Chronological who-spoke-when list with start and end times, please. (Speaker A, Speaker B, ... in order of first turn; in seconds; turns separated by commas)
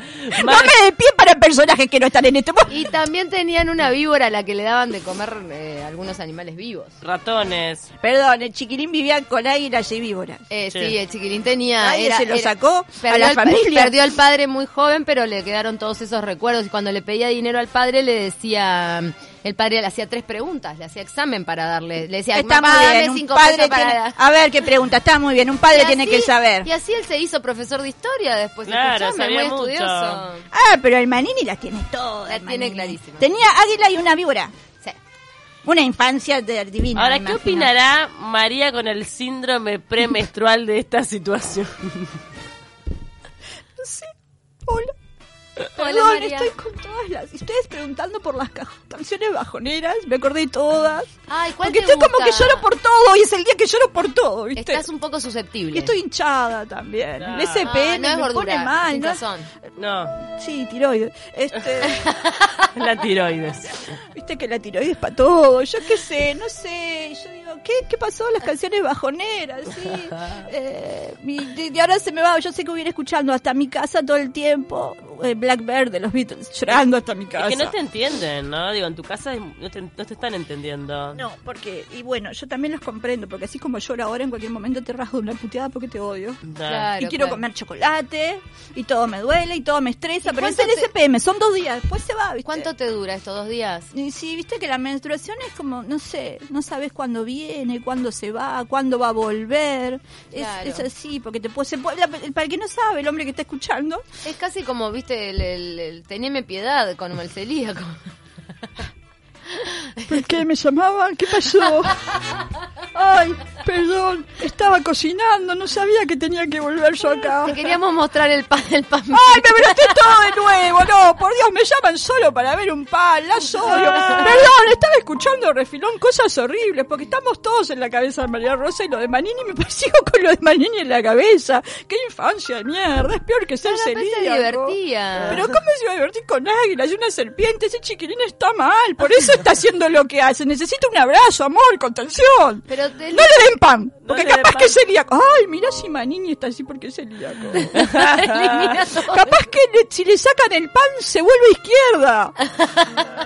Speaker A: 0.1-0.7, Speaker B: 0.3-2.8, Speaker C: 2.7-7.0, Speaker A: 7.0-7.9, Speaker B: 8.0-10.4, Speaker C: 10.5-24.2, Speaker B: 11.8-13.9, Speaker B: 22.3-26.7, Speaker C: 25.7-30.5, Speaker A: 28.6-30.2, Speaker B: 30.5-34.5, Speaker C: 32.3-33.3, Speaker B: 35.6-37.7, Speaker A: 37.0-42.2, Speaker B: 43.8-44.9, Speaker B: 45.7-54.9, Speaker C: 45.8-46.5, Speaker C: 51.3-52.6, Speaker C: 54.5-55.9, Speaker B: 55.7-59.2, Speaker A: 57.2-57.7, Speaker C: 57.6-59.5, Speaker A: 59.8-60.2, Speaker B: 60.2-62.1, Speaker C: 61.9-62.6, Speaker A: 62.7-63.9, Speaker B: 64.0-77.7, Speaker A: 77.3-81.2, Speaker B: 81.1-86.4, Speaker A: 86.5-86.9, Speaker C: 86.6-87.4, Speaker B: 86.9-92.7, Speaker C: 90.2-90.9, Speaker C: 92.5-93.9, Speaker B: 93.9-104.0, Speaker C: 100.3-100.8, Speaker C: 104.2-108.1, Speaker C: 109.5-110.2, Speaker B: 110.1-112.2, Speaker B: 112.9-117.7, Speaker C: 117.3-120.3, Speaker B: 119.1-152.4, Speaker C: 123.9-124.3, Speaker C: 133.6-135.4, Speaker C: 142.7-143.4, Speaker A: 144.0-144.8, Speaker C: 147.7-149.3, Speaker C: 152.5-153.0